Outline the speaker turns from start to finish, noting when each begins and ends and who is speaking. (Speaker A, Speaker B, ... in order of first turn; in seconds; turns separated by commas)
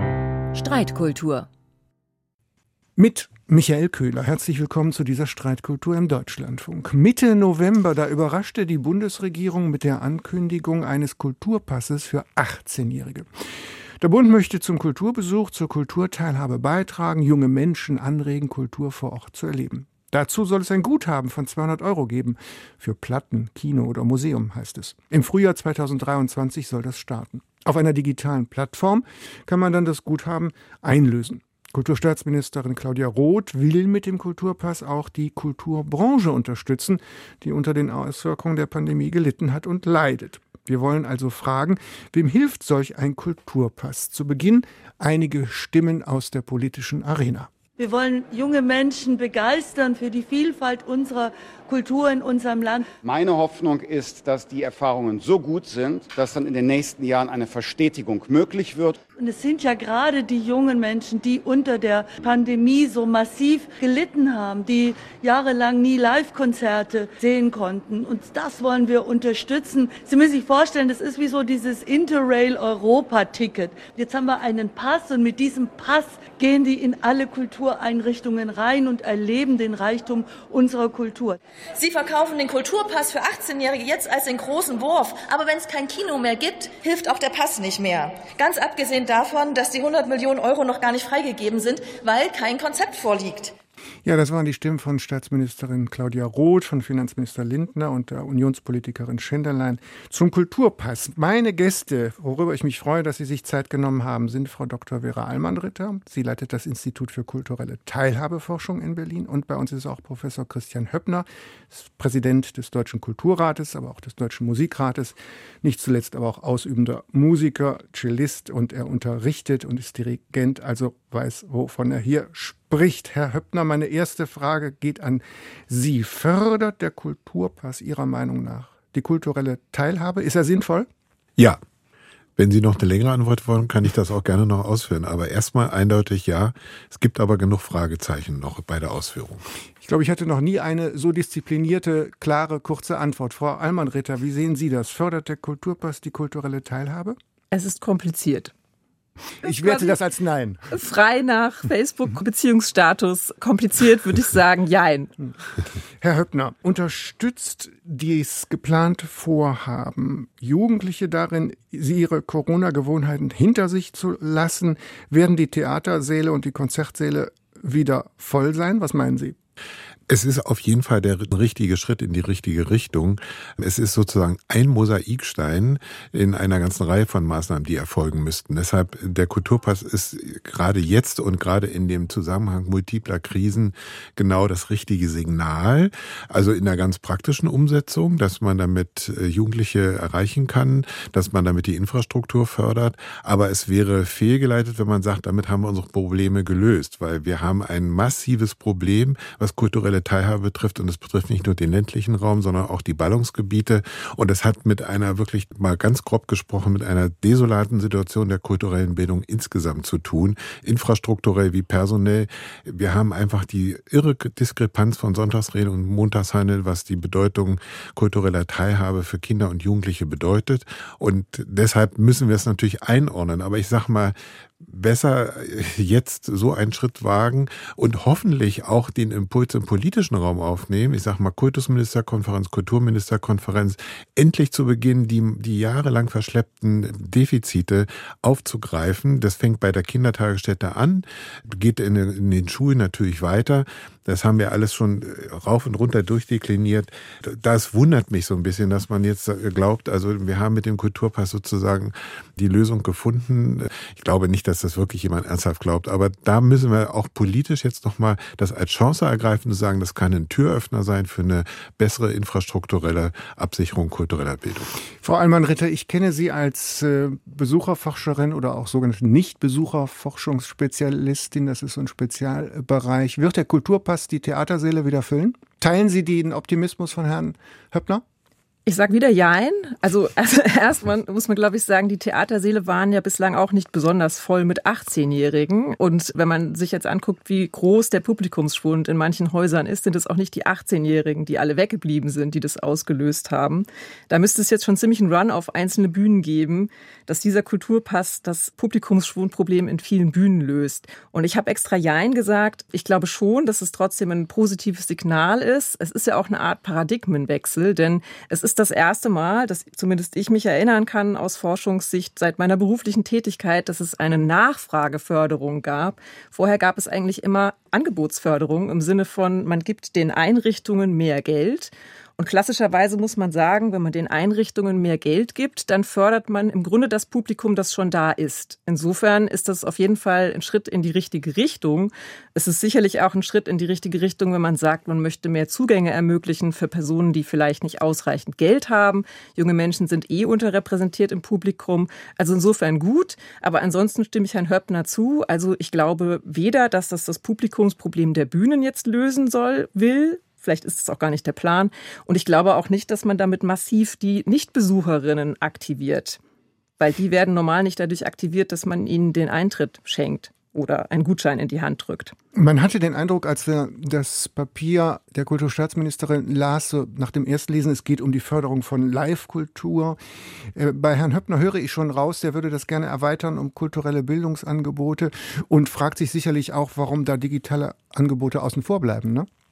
Speaker A: 0.5-1.5, Speaker B: 3.0-13.3, Speaker B: 14.0-47.5, Speaker C: 47.8-52.9, Speaker D: 53.0-59.0, Speaker C: 59.2-81.4, Speaker A: 81.7-93.5, Speaker B: 94.0-130.9, Speaker E: 132.4-139.5, Speaker B: 139.8-147.2, Speaker F: 147.5-148.5, Speaker B: 149.4-150.7, Speaker F: 149.4-149.9, Speaker F: 150.7-155.1, Speaker B: 156.0-169.4, Speaker E: 170.1-264.7, Speaker B: 265.0-278.0, Speaker F: 278.6-356.2, Speaker F: 356.8-362.1, Speaker B: 362.3-370.0, Speaker B: 370.5-379.3